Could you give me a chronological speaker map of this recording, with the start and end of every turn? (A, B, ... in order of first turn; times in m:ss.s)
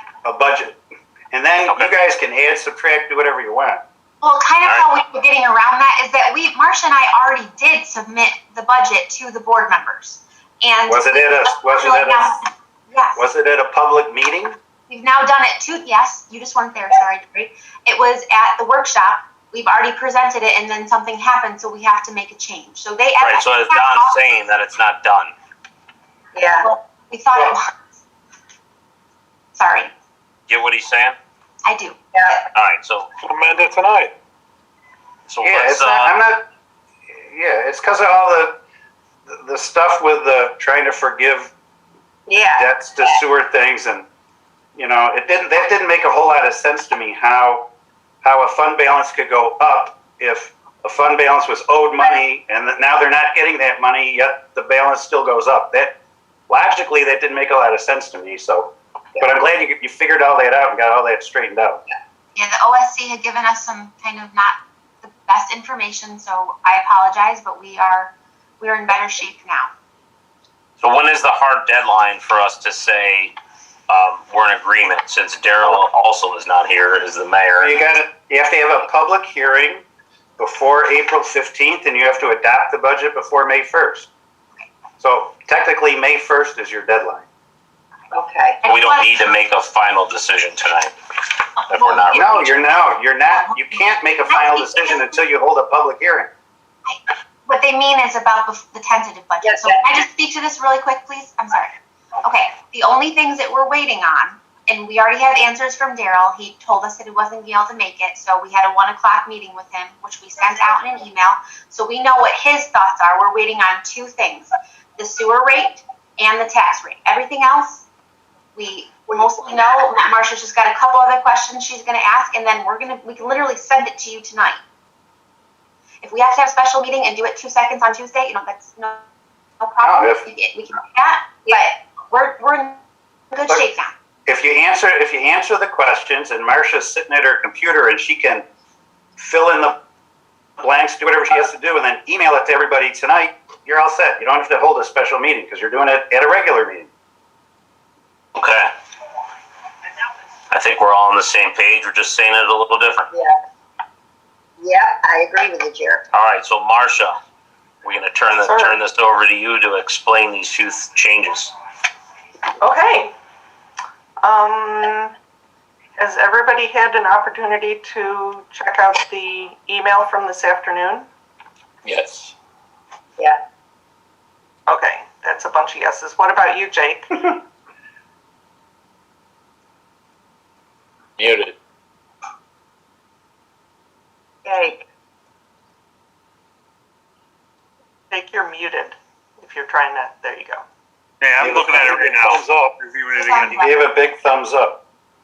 0:00.2-0:00.8 A
0:01.3-0:03.8 A
0:01.7-0:01.9 B
0:04.2-0:13.2 C
0:10.9-0:12.3 A
0:13.2-0:14.6 A
0:14.9-0:24.4 C
0:23.2-0:25.3 B
0:26.3-0:26.7 D
0:26.6-0:27.7 C
0:29.6-0:29.9 C
0:30.5-0:31.2 B
0:31.6-0:32.5 C
0:32.1-0:32.4 D
0:32.5-0:33.1 B
0:33.2-0:34.2 E
0:35.3-0:36.2 B
0:35.4-0:36.5 A
0:37.2-0:38.6 A
0:39.3-0:41.5 A
0:42.3-0:42.7 D
0:42.6-0:44.1 A
0:44.8-0:47.7 A
0:48.2-1:01.8 A
1:02.4-1:09.7 C
1:10.8-1:13.4 B
1:13.9-1:17.7 B
1:17.6-1:19.8 A
1:20.4-1:24.1 A
1:25.0-1:27.3 A
1:28.1-1:28.6 D
1:28.6-1:29.4 C
1:28.6-1:30.9 B
1:31.6-1:35.2 C
1:31.7-1:32.7 B
1:32.2-1:36.3 A
1:36.9-1:57.9 C
1:39.4-1:39.8 D
1:58.6-2:04.6 C
2:06.0-2:09.1 C
2:09.6-2:13.9 C
2:09.8-2:10.3 A
2:14.3-2:18.5 A
2:19.2-2:19.8 A
2:20.6-2:26.9 A
2:28.4-2:28.7 B
2:30.5-2:33.1 B
2:34.6-2:36.0 D
2:36.1-2:37.2 B
2:37.8-2:41.5 B
2:38.3-2:38.8 F
2:42.6-2:43.2 F
2:44.2-2:45.2 F
2:46.0-2:51.1 F
2:51.8-2:52.3 B
2:54.7-2:57.4 F
3:01.2-3:01.5 B
3:04.4-3:04.8 D
3:08.1-3:10.6 F
3:11.2-3:13.6 E
3:11.4-3:12.3 A
3:13.1-3:13.8 C
3:13.6-3:14.8 A